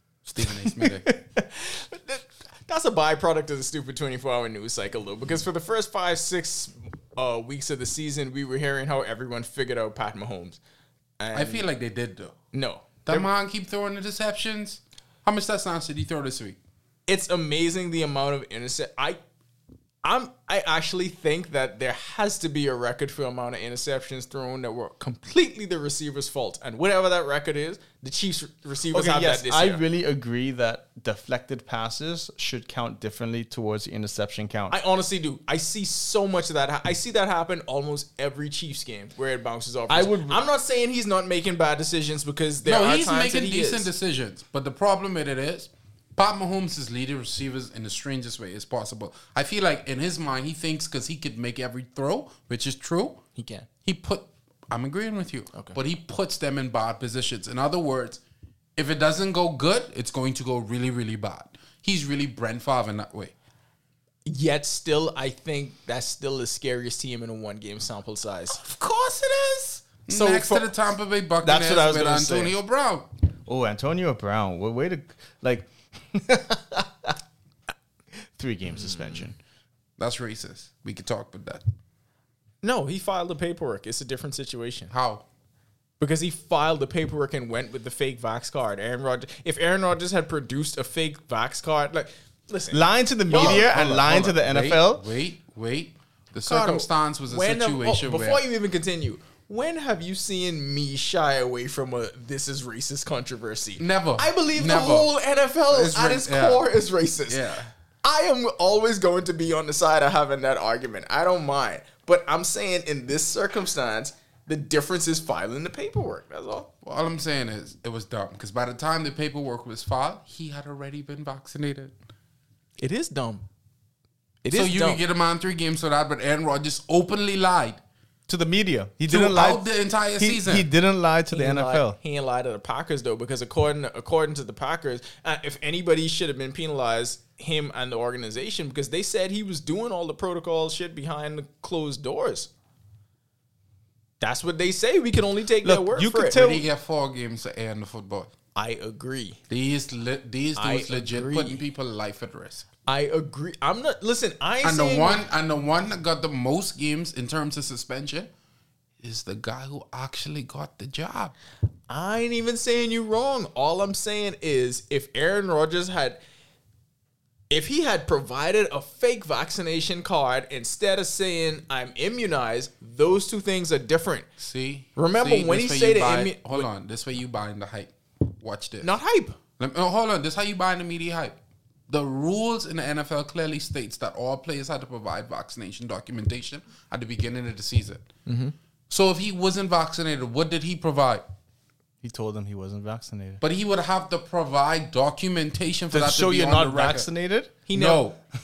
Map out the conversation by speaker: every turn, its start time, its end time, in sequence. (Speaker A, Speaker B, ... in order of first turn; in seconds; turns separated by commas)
Speaker A: 0.2-1.1, Speaker B: 0.4-1.2, Speaker C: 1.5-10.6, Speaker C: 11.2-11.7, Speaker A: 11.3-12.4, Speaker C: 12.5-13.3, Speaker A: 13.1-16.6, Speaker C: 17.1-19.2, Speaker C: 20.0-29.8, Speaker B: 28.9-34.8, Speaker C: 34.7-43.9, Speaker B: 39.9-40.4, Speaker A: 42.6-53.2, Speaker C: 53.4-53.7, Speaker A: 53.9-58.2, Speaker A: 58.8-63.3, Speaker C: 64.2-68.6, Speaker A: 68.5-73.1, Speaker C: 70.1-70.7, Speaker B: 71.4-72.5, Speaker B: 73.5-77.2, Speaker B: 78.3-79.4, Speaker C: 78.7-79.3, Speaker A: 80.0-81.6, Speaker C: 82.6-84.9, Speaker A: 84.9-85.2, Speaker C: 86.0-93.8, Speaker B: 92.7-95.0, Speaker A: 93.3-98.4, Speaker C: 96.4-107.5, Speaker A: 103.8-105.1, Speaker A: 105.7-106.7, Speaker A: 107.3-107.7, Speaker C: 108.0-116.7, Speaker A: 116.8-122.0, Speaker C: 122.8-123.4, Speaker C: 124.4-125.0, Speaker A: 124.5-127.8, Speaker B: 128.3-132.0, Speaker A: 129.1-130.7, Speaker C: 131.3-142.5, Speaker C: 144.2-146.5, Speaker B: 145.6-146.7, Speaker A: 146.3-148.3, Speaker C: 148.6-149.4, Speaker A: 149.5-152.7, Speaker C: 150.6-151.6, Speaker C: 152.9-155.2, Speaker A: 154.6-158.3, Speaker A: 159.0-161.3, Speaker C: 161.9-166.2, Speaker C: 167.5-174.3, Speaker A: 174.4-178.9, Speaker C: 174.9-176.7, Speaker C: 178.8-179.4, Speaker A: 179.6-181.4, Speaker A: 181.9-188.1, Speaker C: 188.2-188.5, Speaker A: 188.9-191.2, Speaker B: 192.0-193.4, Speaker A: 193.4-197.1, Speaker B: 195.9-197.5, Speaker C: 197.7-198.0, Speaker A: 197.7-198.2